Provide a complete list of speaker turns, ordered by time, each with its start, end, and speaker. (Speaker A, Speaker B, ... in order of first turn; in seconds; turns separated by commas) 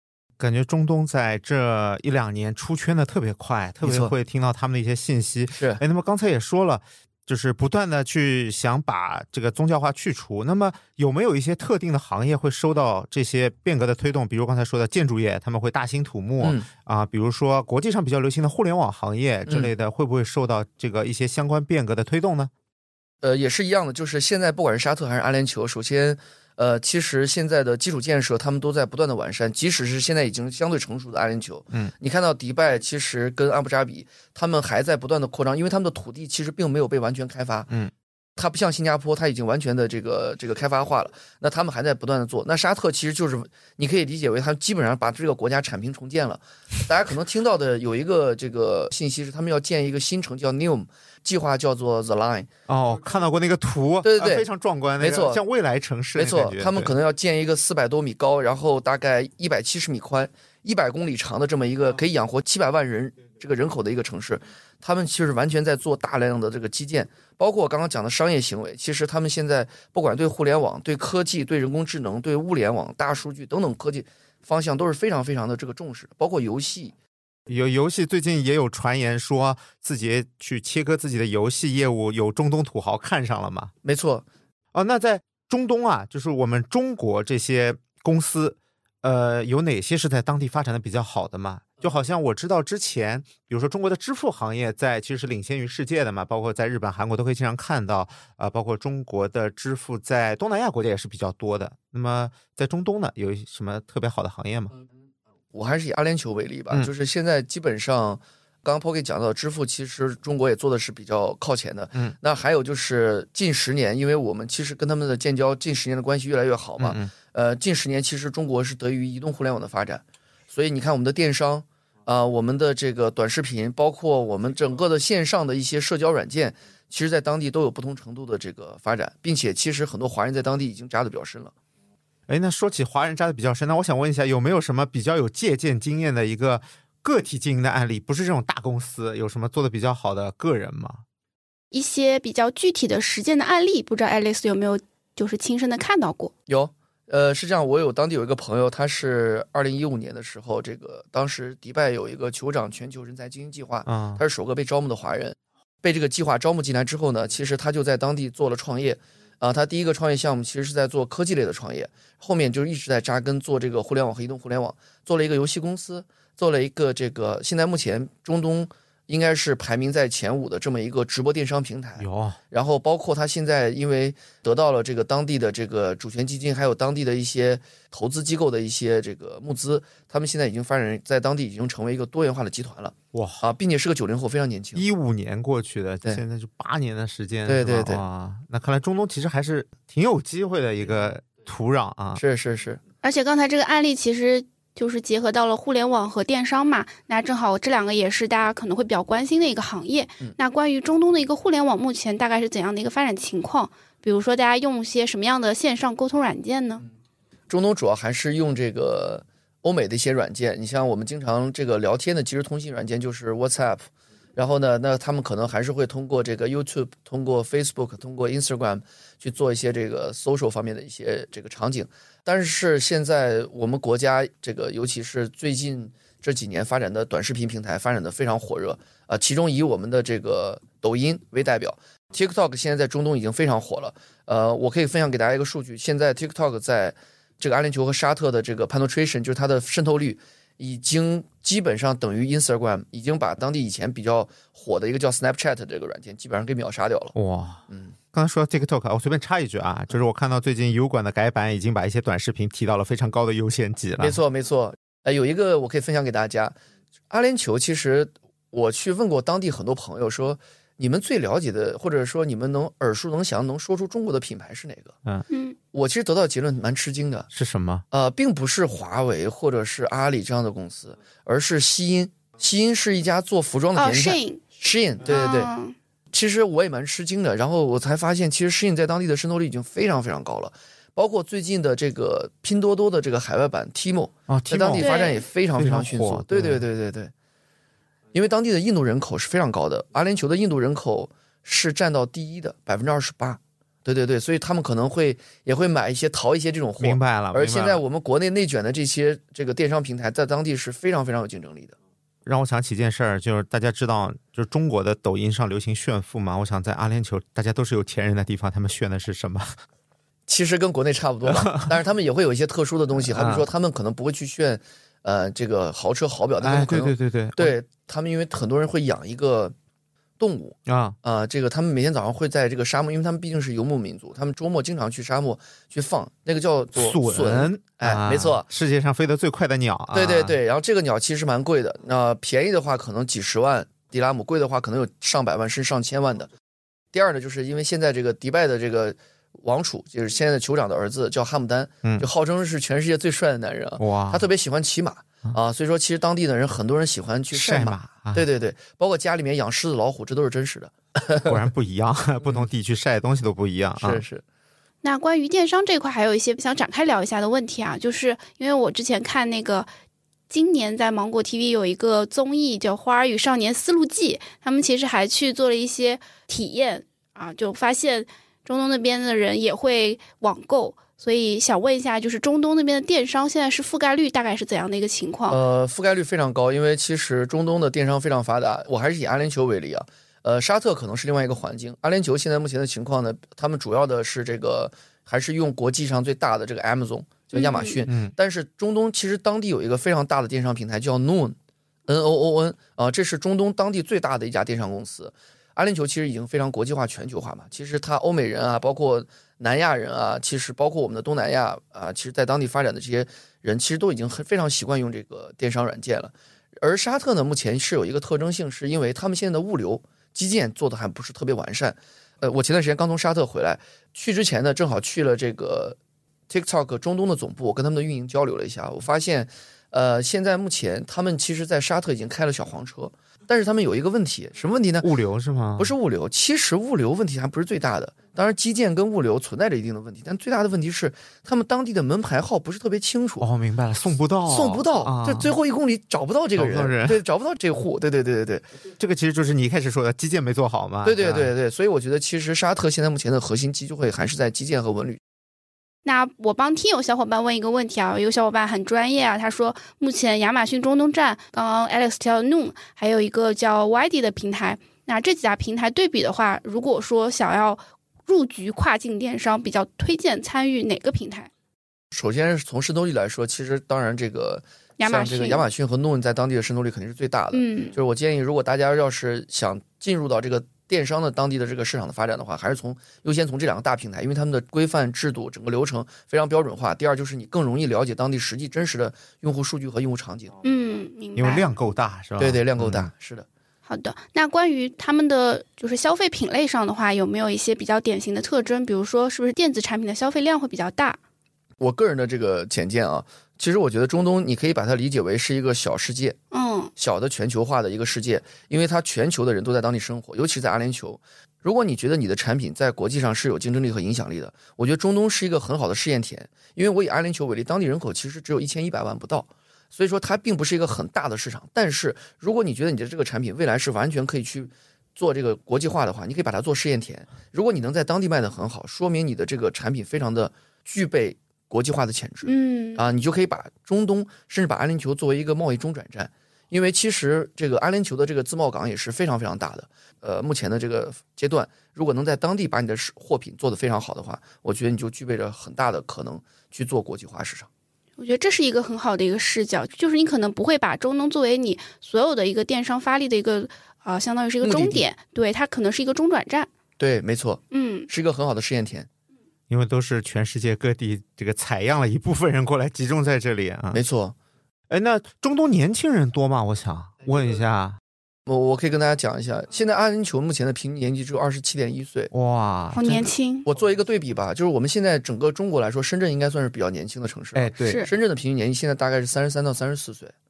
Speaker A: 0.4-22.5, Speaker B: 3.8-4.1, Speaker B: 5.5-5.8, Speaker B: 16.4-16.7, Speaker B: 23.2-37.7, Speaker B: 38.4-52.5, Speaker A: 52.7-56.9, Speaker B: 54.0-54.5, Speaker B: 55.0-55.4, Speaker B: 56.1-76.9, Speaker A: 77.5-83.7, Speaker B: 83.8-84.3, Speaker A: 84.7-104.7, Speaker B: 105.5-131.5, Speaker A: 116.8-117.1, Speaker A: 132.3-141.0, Speaker C: 141.7-146.3, Speaker B: 146.5-184.8, Speaker A: 153.9-154.2, Speaker A: 172.0-172.4, Speaker A: 183.1-183.4, Speaker A: 184.7-192.2, Speaker B: 187.4-188.0, Speaker B: 192.2-192.8, Speaker C: 193.0-206.8, Speaker B: 207.5-247.1, Speaker A: 247.1-254.2, Speaker B: 247.7-247.9, Speaker B: 254.0-256.6, Speaker B: 257.1-264.9, Speaker C: 265.3-265.6, Speaker B: 265.7-267.3, Speaker A: 267.3-267.8, Speaker B: 267.9-275.5, Speaker C: 273.7-274.4, Speaker C: 275.1-275.7, Speaker B: 276.1-287.1, Speaker A: 284.3-284.9, Speaker C: 284.8-285.2, Speaker A: 285.6-286.6, Speaker B: 288.1-301.8, Speaker A: 296.8-297.8, Speaker A: 302.2-309.6, Speaker B: 310.3-319.5, Speaker A: 311.2-311.7, Speaker A: 313.0-313.5, Speaker A: 316.4-317.5, Speaker B: 320.2-328.4, Speaker A: 320.6-321.0, Speaker A: 326.8-330.3, Speaker B: 329.9-336.3, Speaker B: 336.9-351.3, Speaker A: 343.8-344.2, Speaker A: 347.3-348.2, Speaker A: 351.2-354.0, Speaker B: 353.8-354.2, Speaker C: 354.8-359.7, Speaker C: 360.3-375.4, Speaker B: 375.3-391.4, Speaker C: 387.3-387.7, Speaker A: 387.9-388.1, Speaker B: 391.9-415.8, Speaker B: 416.3-424.9, Speaker A: 424.8-425.7, Speaker B: 425.6-433.2, Speaker A: 433.2-435.3, Speaker B: 434.3-438.4, Speaker A: 436.4-437.0, Speaker A: 438.8-441.3, Speaker B: 440.8-445.0, Speaker C: 445.8-461.3, Speaker B: 461.9-480.3, Speaker C: 464.8-465.4, Speaker C: 467.3-467.7, Speaker C: 480.4-481.4, Speaker A: 481.1-482.9, Speaker B: 482.2-483.2, Speaker C: 483.7-491.0, Speaker B: 491.6-496.2, Speaker C: 496.3-496.7, Speaker B: 496.8-537.5, Speaker C: 522.2-522.8, Speaker C: 538.0-546.5, Speaker B: 544.4-544.9, Speaker B: 546.8-548.9, Speaker C: 547.5-547.9, Speaker A: 549.5-553.8, Speaker B: 553.7-554.1, Speaker A: 554.7-557.8, Speaker B: 558.3-562.1, Speaker A: 562.1-563.1, Speaker C: 562.7-563.5, Speaker B: 563.4-570.1, Speaker A: 567.3-567.8, Speaker C: 567.6-567.9